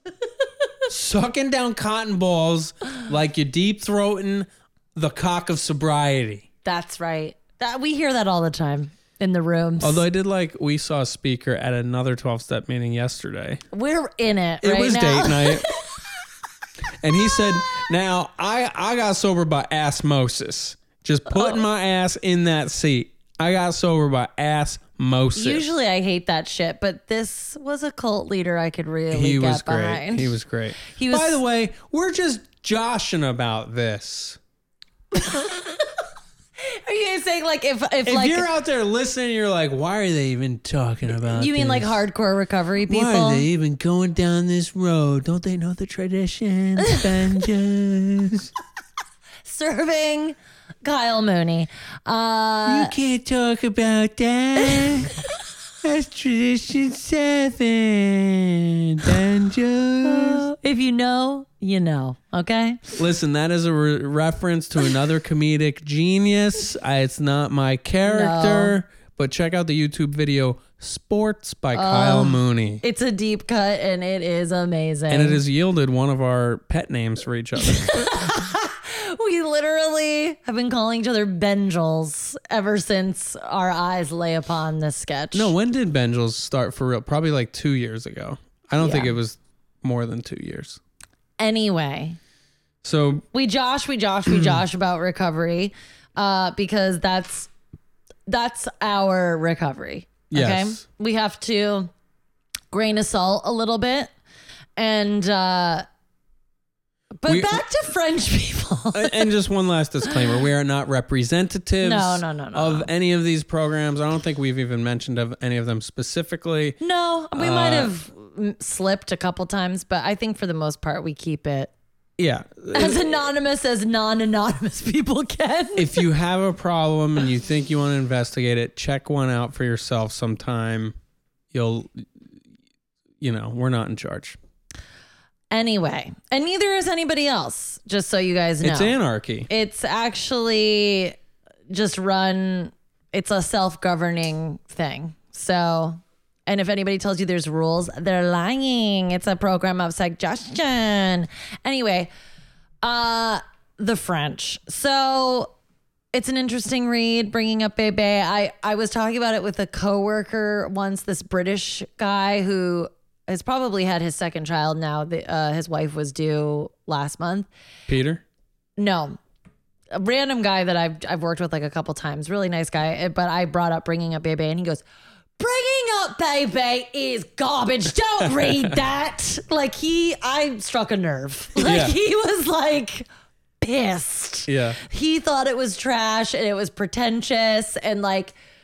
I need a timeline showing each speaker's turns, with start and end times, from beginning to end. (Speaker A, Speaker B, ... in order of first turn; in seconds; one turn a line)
Speaker A: 0.2-0.9
Speaker B: 0.9-6.5
Speaker A: 6.6-10.0
Speaker B: 9.8-13.6
Speaker A: 13.7-16.0
Speaker B: 14.6-15.7
Speaker B: 17.0-25.6
Speaker A: 21.3-21.6
Speaker A: 25.4-31.4
Speaker B: 29.1-34.4
Speaker A: 35.1-36.0
Speaker A: 36.6-38.5
Speaker B: 38.0-42.0
Speaker A: 41.1-43.5
Speaker B: 42.9-48.5
Speaker A: 49.5-52.9
Speaker B: 52.7-55.1
Speaker A: 54.8-55.2
Speaker B: 55.8-60.5
Speaker A: 60.0-63.0
Speaker B: 63.0-72.8
Speaker A: 68.0-68.8
Speaker A: 71.7-75.4
Speaker B: 75.1-78.3
Speaker A: 77.6-85.5
Speaker B: 85.3-90.8
Speaker A: 88.8-89.1
Speaker A: 91.4-92.2
Speaker B: 92.8-93.3
Speaker A: 93.3-97.5
Speaker B: 94.3-94.6
Speaker A: 98.3-101.9
Speaker B: 100.3-100.8
Speaker A: 102.7-104.1
Speaker A: 104.8-105.8
Speaker A: 107.2-109.3
Speaker B: 107.3-107.6
Speaker B: 109.0-116.8
Speaker A: 111.8-112.9
Speaker A: 116.8-121.7
Speaker B: 117.3-117.9
Speaker B: 122.2-123.2
Speaker A: 122.7-126.0
Speaker B: 125.8-130.9
Speaker B: 131.5-132.1
Speaker B: 133.2-134.4
Speaker A: 135.5-139.0
Speaker B: 138.6-139.5
Speaker A: 139.5-141.2
Speaker A: 141.7-152.1
Speaker A: 152.8-155.5
Speaker A: 156.1-167.5
Speaker B: 167.9-168.2
Speaker A: 168.8-169.2
Speaker A: 169.9-174.8
Speaker A: 175.4-183.1
Speaker B: 178.2-178.7
Speaker B: 181.6-181.9
Speaker A: 183.6-188.3
Speaker B: 184.5-184.8